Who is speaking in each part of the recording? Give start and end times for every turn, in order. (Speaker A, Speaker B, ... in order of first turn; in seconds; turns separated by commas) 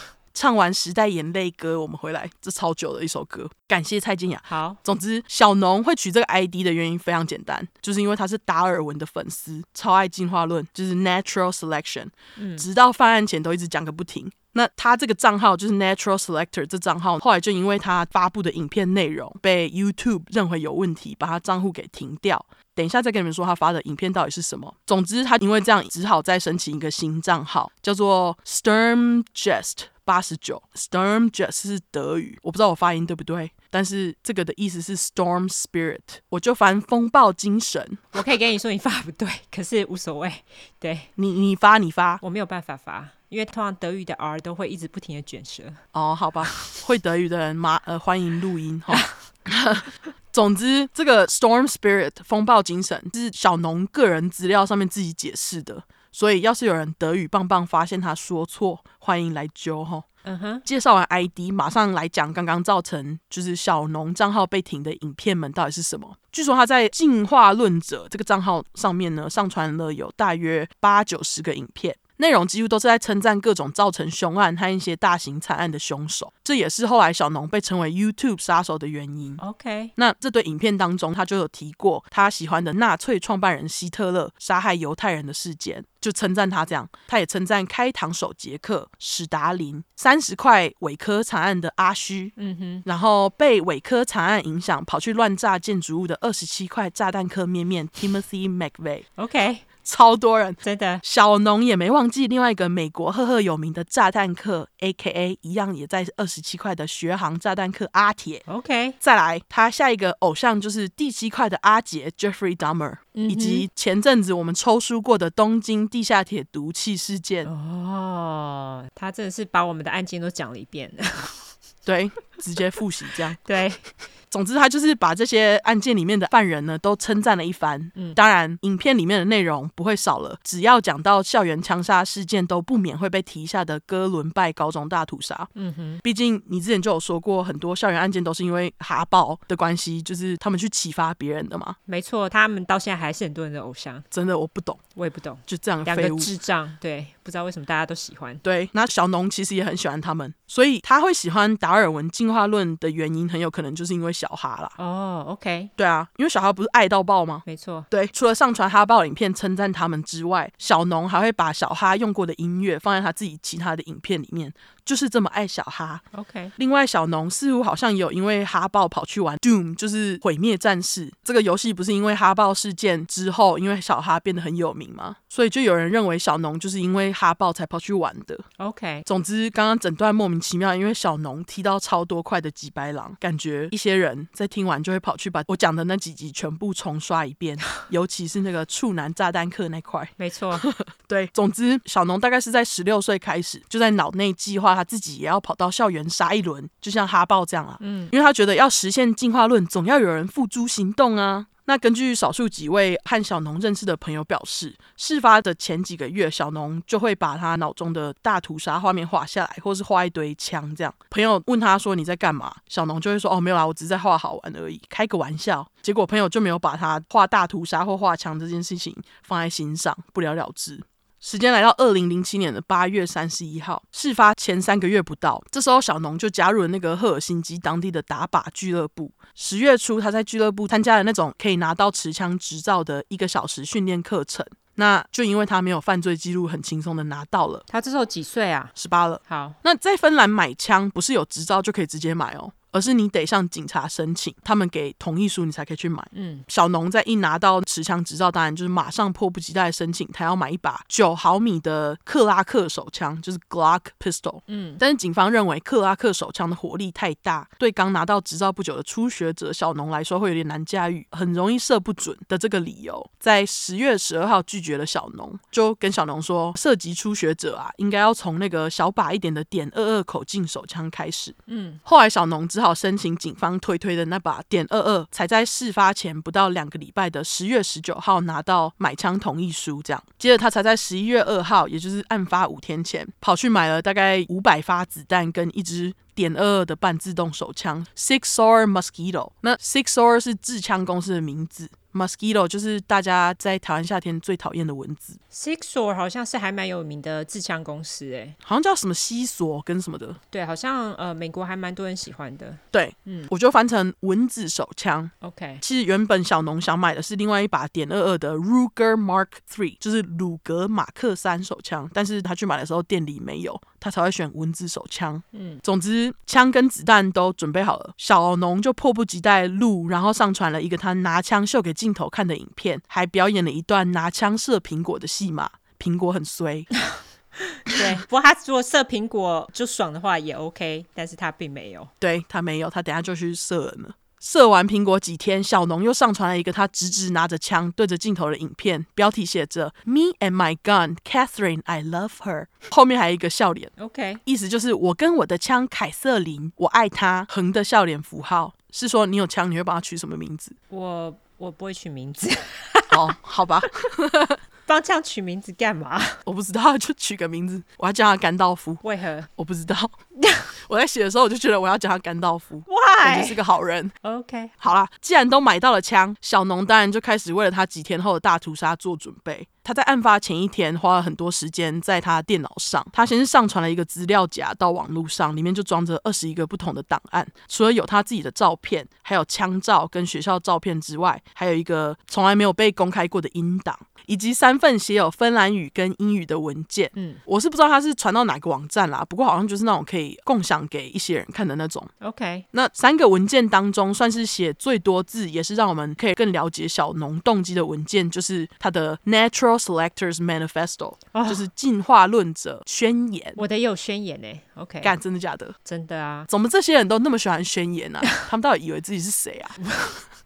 Speaker A: 0.3-38.0, Speaker B: 4.5-4.8, Speaker B: 12.3-12.6, Speaker B: 38.1-41.1, Speaker A: 41.2-42.2, Speaker B: 42.2-45.8, Speaker A: 45.9-60.0, Speaker B: 46.5-46.8, Speaker B: 60.2-60.6, Speaker A: 60.6-79.4, Speaker B: 79.4-79.9, Speaker A: 80.0-92.3, Speaker B: 92.4-92.8, Speaker A: 92.8-99.0, Speaker B: 99.2-99.7, Speaker A: 99.8-108.4, Speaker B: 100.6-101.0, Speaker B: 108.5-109.0, Speaker A: 109.0-117.5, Speaker B: 113.1-113.7, Speaker B: 117.5-121.5, Speaker A: 121.8-123.4, Speaker B: 123.4-123.8, Speaker A: 124.3-135.5, Speaker B: 135.6-136.0, Speaker A: 136.0-141.8, Speaker B: 141.9-144.0, Speaker A: 144.1-144.8, Speaker B: 144.9-148.4, Speaker A: 145.5-146.3, Speaker A: 148.4-154.8, Speaker B: 154.8-155.7, Speaker A: 155.8-166.0, Speaker B: 157.5-157.9, Speaker B: 166.1-166.5, Speaker A: 166.6-178.4, Speaker B: 178.6-179.1, Speaker A: 179.1-237.6, Speaker B: 190.2-190.7, Speaker B: 197.8-198.1, Speaker B: 237.7-238.7, Speaker A: 238.8-295.2, Speaker B: 239.3-239.6, Speaker B: 246.1-246.4, Speaker B: 254.5-254.8, Speaker B: 271.5-271.8, Speaker B: 295.3-298.4, Speaker A: 298.4-300.2, Speaker B: 300.3-303.3, Speaker A: 302.7-326.7, Speaker B: 305.2-305.6, Speaker B: 315.3-315.6, Speaker B: 327.4-331.9, Speaker A: 332.0-343.7, Speaker B: 343.8-344.2, Speaker A: 344.2-350.6, Speaker B: 350.7-353.1, Speaker A: 352.9-354.4, Speaker B: 354.7-356.2, Speaker A: 356.2-358.8, Speaker B: 358.8-359.3, Speaker A: 359.4-359.9, Speaker B: 360.2-360.5, Speaker A: 360.7-363.9, Speaker B: 362.7-363.4, Speaker B: 364.0-364.5, Speaker A: 364.6-391.9, Speaker B: 386.9-387.2, Speaker B: 392.0-392.4, Speaker A: 392.5-403.4, Speaker B: 401.1-401.4, Speaker B: 403.4-404.9, Speaker A: 404.8-405.5, Speaker B: 405.6-406.3, Speaker A: 406.3-409.6, Speaker B: 409.6-410.0